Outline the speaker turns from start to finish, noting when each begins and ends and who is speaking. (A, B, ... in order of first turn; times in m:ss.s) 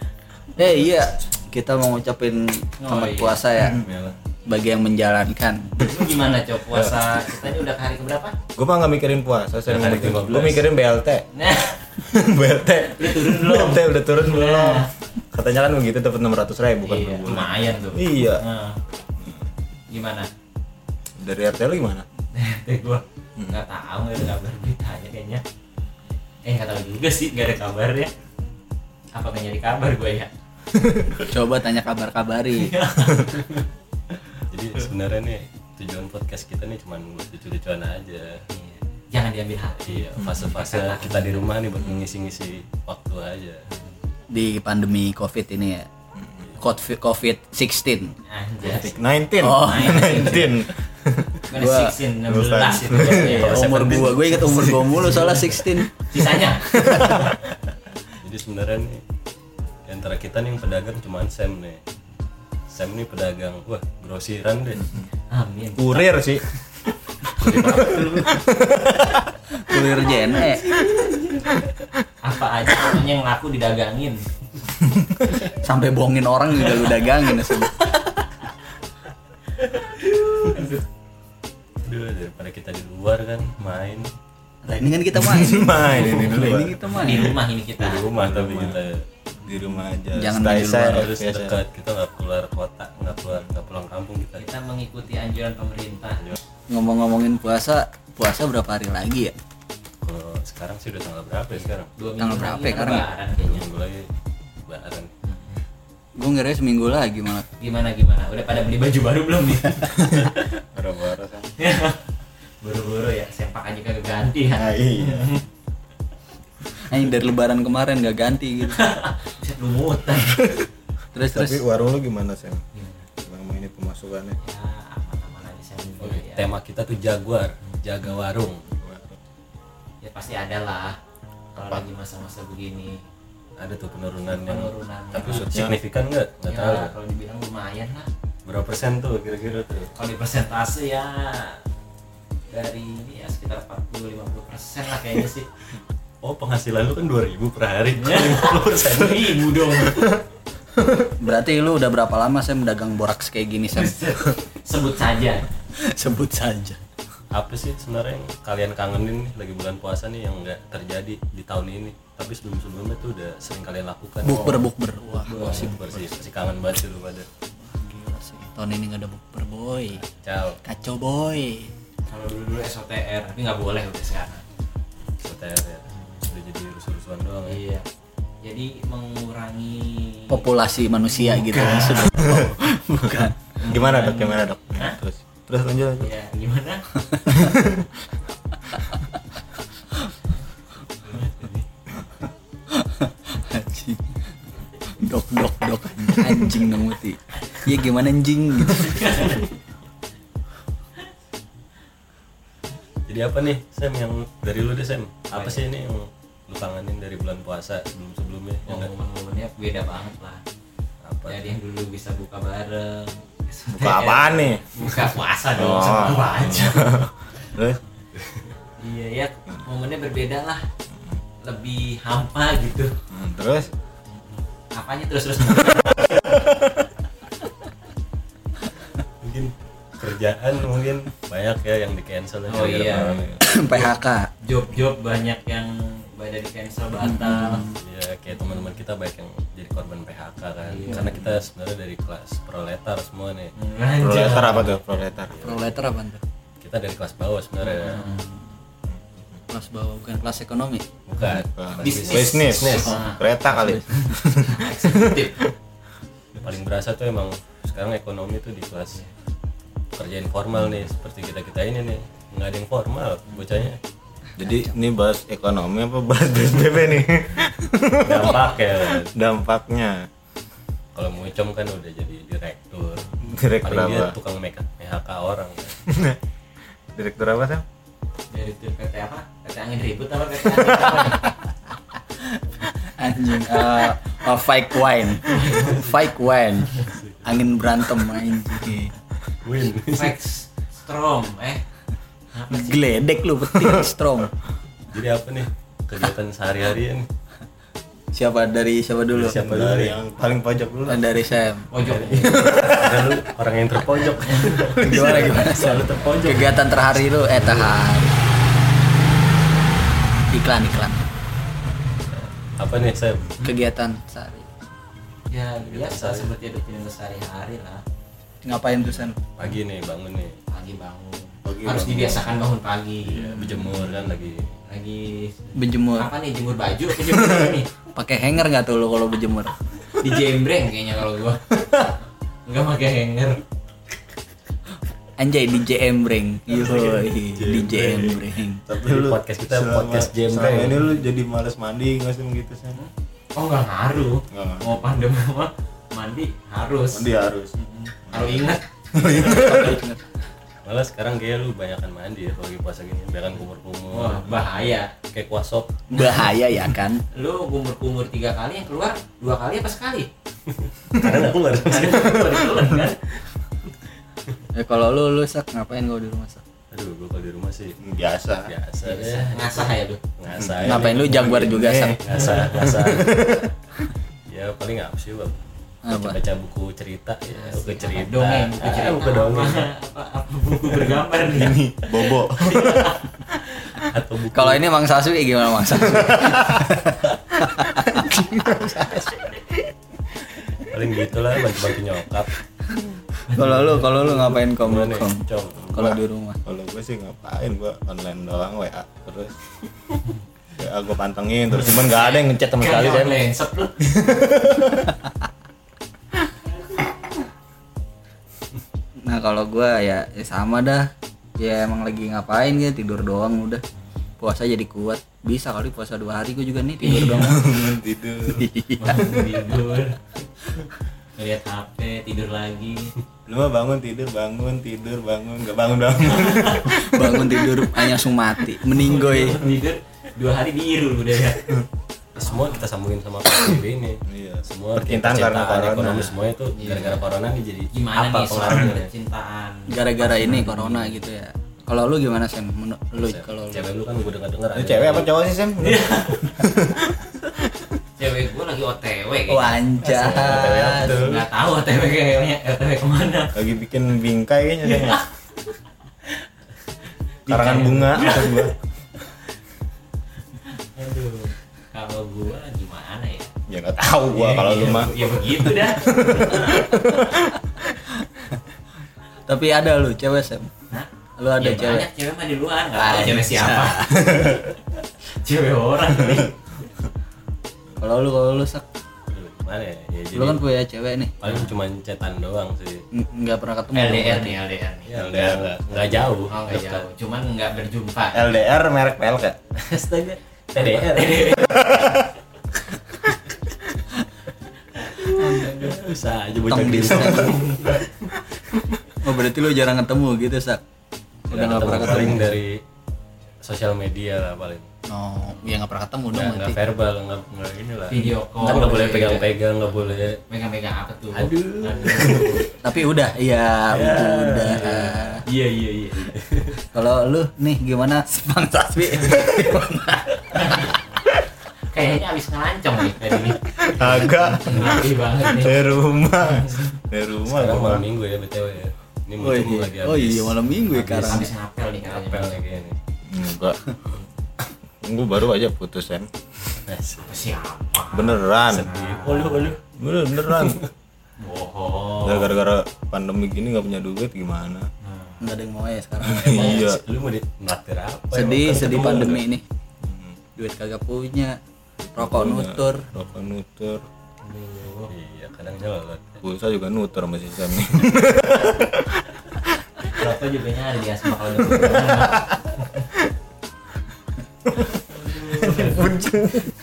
0:00.6-0:03.9 A
0:02.8-0:03.4 B
0:03.7-0:04.2 C
0:04.5-0:05.9 A
0:05.8-0:08.4 B
0:06.7-0:07.0 D
0:08.6-0:11.3 D
0:09.7-0:10.7 C
0:11.3-0:12.0 B
0:12.0-0:18.4 D
0:12.9-0:14.9 B
0:16.8-0:18.8 B
0:19.9-0:20.3 B
0:21.2-0:22.0 D
0:22.3-0:25.4 B
0:26.4-0:28.1 B
0:29.1-0:30.3 B
0:30.7-0:31.3 D
0:31.2-0:32.8 A
0:32.5-0:33.4 B
0:34.4-0:38.4 C
0:38.5-0:41.3 B
0:39.8-0:43.6 C
0:44.3-0:45.9 A
0:46.6-0:48.2 A
0:48.3-0:50.6 B
0:48.6-0:51.5 D
0:49.4-0:50.5 A
0:51.5-0:53.7 B
0:51.5-0:52.0 A
0:52.2-0:53.4 D
0:53.1-0:54.8 C
0:53.1-0:56.0 A
0:54.9-0:57.1 B
0:56.7-0:57.3 D
0:58.2-0:59.0 C
0:59.9-1:01.8 C
1:02.7-1:04.9 C
1:05.3-1:06.2 B
1:05.8-1:06.4 D
1:07.4-1:08.1 C
1:07.4-1:08.0 B
1:07.4-1:09.3 D
1:09.6-1:10.7 A
1:10.8-1:11.3 B
1:12.2-1:14.2 B
1:15.5-1:18.0 A
1:19.6-1:20.8 B
1:21.8-1:24.1 C
1:24.7-1:27.4 A
1:25.1-1:26.8 D
1:26.9-1:28.1 B
1:27.8-1:29.0 C
1:28.1-1:28.8 D
1:29.4-1:31.6 D
1:30.1-1:31.1 A
1:30.8-1:34.5 C
1:34.4-1:36.3 B
1:36.7-1:39.3 A
1:40.0-1:41.9 C
1:42.0-1:43.6 B
1:42.2-1:43.1 A
1:43.4-1:44.1 C
1:44.7-1:45.1 C
1:45.3-1:45.6 B
1:46.2-1:47.5 A
1:47.6-1:50.3 B
1:50.7-1:51.5 D
1:51.6-1:52.0 B
1:52.6-1:55.4 B
1:54.5-1:55.4 D
1:56.8-1:58.8 A
1:58.7-2:00.6 B
2:01.1-2:01.6 A
2:01.3-2:02.6 D
2:02.7-2:03.1 B
2:03.2-2:04.4 D
2:04.4-2:06.5 B
2:06.0-2:08.6 C
2:08.7-2:09.2 D
2:10.0-2:11.0 B
2:11.5-2:13.0 B
2:13.6-2:16.9 C
2:14.4-2:15.5 B
2:15.5-2:15.8 D
2:16.5-2:18.1 B
2:18.5-2:19.9 C
2:20.0-2:21.6 B
2:22.5-2:25.5 B
2:26.2-2:29.6 C
2:28.0-2:30.2 B
2:31.2-2:34.3 A
2:33.7-2:35.5 B
2:35.8-2:36.8 A
2:37.3-2:44.7 C
2:44.2-2:46.1 A
2:45.2-2:45.8 B
2:45.3-2:47.3 C
2:47.6-2:50.0 A
2:50.1-2:50.6 C
2:50.6-2:51.7 A
2:52.1-2:54.4 B
2:55.2-2:57.6 C
2:57.5-2:57.9 B
2:58.4-3:00.5 B
3:00.3-3:03.4 A
3:01.1-3:02.3 B
3:02.2-3:02.5 D
3:03.6-3:05.0 B
3:03.6-3:06.1 D
3:06.0-3:06.8 B
3:07.1-3:07.5 A
3:07.3-3:07.9 D
3:11.0-3:11.7 B
3:12.7-3:14.0 A
3:14.9-3:19.3 A
3:18.8-3:19.5 B
3:23.1-3:28.9 C
3:25.3-3:25.6 B
3:28.7-3:30.4 B
3:31.0-3:31.5 C
3:31.3-3:37.0 B
3:33.7-3:34.6 D
3:35.6-3:37.8 D
3:38.2-3:38.5 C
3:38.8-3:40.6 B
3:41.4-3:42.9 B
3:43.1-3:43.7 D
3:44.2-3:46.2 B
3:45.7-3:46.7 D
3:49.2-3:53.4 C
3:52.5-3:53.3 B
3:52.9-3:53.4 D
3:53.4-3:54.3 A
3:54.4-3:57.7 B
3:57.0-3:57.8 A
3:57.7-4:03.5 C
4:00.6-4:01.2 B
4:03.6-4:04.8 B
4:04.0-4:05.5 D
4:05.3-4:05.7 C
4:05.4-4:06.2 A
4:06.6-4:08.1 C
4:07.6-4:08.3 B
4:08.0-4:08.3 A
4:09.5-4:10.9 A
4:11.1-4:13.0 C
4:11.2-4:15.3 D
4:11.8-4:13.3 B
4:13.5-4:14.1 A
4:14.0-4:15.5 B
4:16.4-4:19.0 C
4:19.9-4:23.8 C
4:24.4-4:24.7 A
4:24.4-4:30.1 D
4:28.0-4:29.1 C
4:31.0-4:35.8 C
4:33.2-4:34.2 D
4:35.9-4:36.2 D
4:37.0-4:37.6 D
4:38.3-4:41.4 B
4:42.2-4:48.9 A
4:45.2-4:46.0 B
4:46.9-4:47.4 C
4:49.4-4:50.2 C
4:49.9-4:51.6 B
4:52.3-4:52.8 B
4:52.5-4:54.3 A
4:53.5-4:53.8 D
4:54.9-4:57.1 C
4:58.1-4:59.4 A
4:59.1-5:00.0 C
4:59.4-5:01.0 D
5:00.9-5:01.7 A
5:01.7-5:02.7 B
5:01.8-5:07.7 C
5:02.4-5:03.1 D
5:04.2-5:04.8 B
5:04.8-5:08.2 A
5:04.8-5:05.3 D
5:10.3-5:11.0 A
5:12.1-5:13.5 C
5:13.4-5:14.5 A
5:15.3-5:17.8 B
5:15.6-5:16.3 C
5:18.4-5:19.2 A
5:19.3-5:20.4 C
5:20.5-5:23.4 B
5:21.4-5:22.4 D
5:23.1-5:24.5 C
5:24.7-5:27.7 B
5:25.6-5:26.1 A
5:27.9-5:29.6 A
5:30.0-5:31.4 B
5:32.5-5:33.4 B
5:35.2-5:38.6 A
5:36.5-5:40.8 C
5:38.7-5:42.8 D
5:42.7-5:49.8 B
5:44.3-5:44.9 D
5:46.9-5:47.5 D
5:48.1-5:49.8 D
5:49.0-5:50.0 A
5:50.6-5:55.7 C
5:53.9-5:54.9 B
5:55.9-5:57.0 A
5:57.1-6:00.1 B
6:00.5-6:02.5 C
6:01.6-6:03.0 B
6:04.6-6:06.4 A
6:06.7-6:07.8 C
6:07.8-6:08.5 D
6:08.4-6:13.4 C
6:08.8-6:10.0 B
6:10.4-6:13.5 D
6:10.6-6:12.0 A
6:14.3-6:15.4 C
6:15.8-6:16.2 A
6:15.9-6:19.7 C
6:17.4-6:23.8 B
6:21.3-6:23.0 D
6:23.8-6:24.7 C
6:24.3-6:28.9 A
6:25.9-6:26.8 D
6:27.9-6:29.2 D
6:30.6-6:32.3 C
6:33.3-6:36.4 A
6:33.4-6:36.0 C
6:36.4-6:39.3 D
6:40.6-6:43.2 D
6:41.6-6:43.8 B
6:43.8-6:45.0 D
6:49.0-6:53.6 A
6:54.2-6:57.7 A
6:56.8-6:57.4 B
6:57.1-6:58.5 D
6:58.3-6:59.3 A
6:58.8-7:00.0 B
7:01.2-7:02.9 B
7:03.3-7:07.2 D
7:06.1-7:06.7 B
7:06.6-7:09.5 A
7:08.7-7:11.6 B
7:12.2-7:18.9 C
7:12.2-7:12.6 B
7:14.0-7:16.1 D
7:16.6-7:17.0 B
7:17.7-7:21.1 B
7:19.7-7:23.7 A
7:23.0-7:25.1 C
7:24.6-7:27.7 D
7:25.6-7:26.3 B
7:28.0-7:29.6 B
7:29.3-7:31.1 A
7:29.8-7:31.2 C
7:30.9-7:33.4 B
7:33.4-7:35.0 D
7:34.7-7:35.0 B
7:37.3-7:38.5 B
7:37.3-7:38.6 D
7:40.4-7:43.3 B
7:43.5-7:47.4 D
7:44.1-7:46.7 B
7:49.3-7:50.5 A
7:50.7-7:54.4 B
7:51.2-7:51.9 A
7:52.8-7:54.3 A
7:54.0-7:54.4 D
7:55.1-7:56.4 B
7:57.8-7:58.6 A
7:59.1-8:00.4 C
8:00.1-8:01.1 A
8:01.2-8:02.9 C
8:01.2-8:01.5 B
8:02.9-8:04.4 A
8:03.7-8:05.1 B
8:04.9-8:06.9 C
8:05.0-8:05.8 D
8:06.3-8:08.3 B
8:08.1-8:09.4 D
8:09.6-8:11.7 C
8:10.7-8:11.7 B
8:11.5-8:12.0 D
8:15.1-8:15.8 A
8:15.2-8:18.1 C
8:16.5-8:17.5 A
8:19.0-8:20.6 A
8:21.3-8:22.4 A
8:21.3-8:22.6 C
8:23.4-8:24.7 C
8:24.9-8:26.6 A
8:26.1-8:30.2 C
8:27.9-8:29.3 B
8:30.3-8:32.5 B
8:31.1-8:32.5 C
8:32.6-8:35.2 A
8:33.7-8:35.2 C
8:35.3-8:36.2 B
8:36.1-8:36.6 C
8:36.7-8:40.7 A
8:40.3-8:40.8 B
8:41.6-8:46.8 B
8:43.5-8:47.9 D
8:47.2-8:51.3 C
8:49.2-8:51.3 A
8:51.0-8:52.4 B
8:51.8-8:52.8 C
8:53.1-8:53.6 D
8:54.8-8:56.1 D
8:56.6-8:57.4 C
8:57.0-8:59.6 B
8:57.9-8:58.7 D
8:58.5-8:59.6 C
8:59.7-9:00.6 D
9:00.3-9:00.7 C
9:01.2-9:02.3 B
9:02.0-9:04.7 D
9:04.8-9:05.2 B
9:05.2-9:06.7 A
9:06.0-9:06.8 D
9:06.2-9:09.2 C
9:08.1-9:09.4 A
9:09.8-9:10.2 D
9:10.4-9:11.4 A
9:11.8-9:13.8 D
9:12.0-9:12.9 A
9:14.2-9:14.9 B
9:14.9-9:16.2 C
9:16.2-9:19.4 D
9:19.9-9:22.9 B
9:21.5-9:22.3 D
9:24.9-9:25.9 B
9:25.4-9:26.1 A
9:25.4-9:26.5 D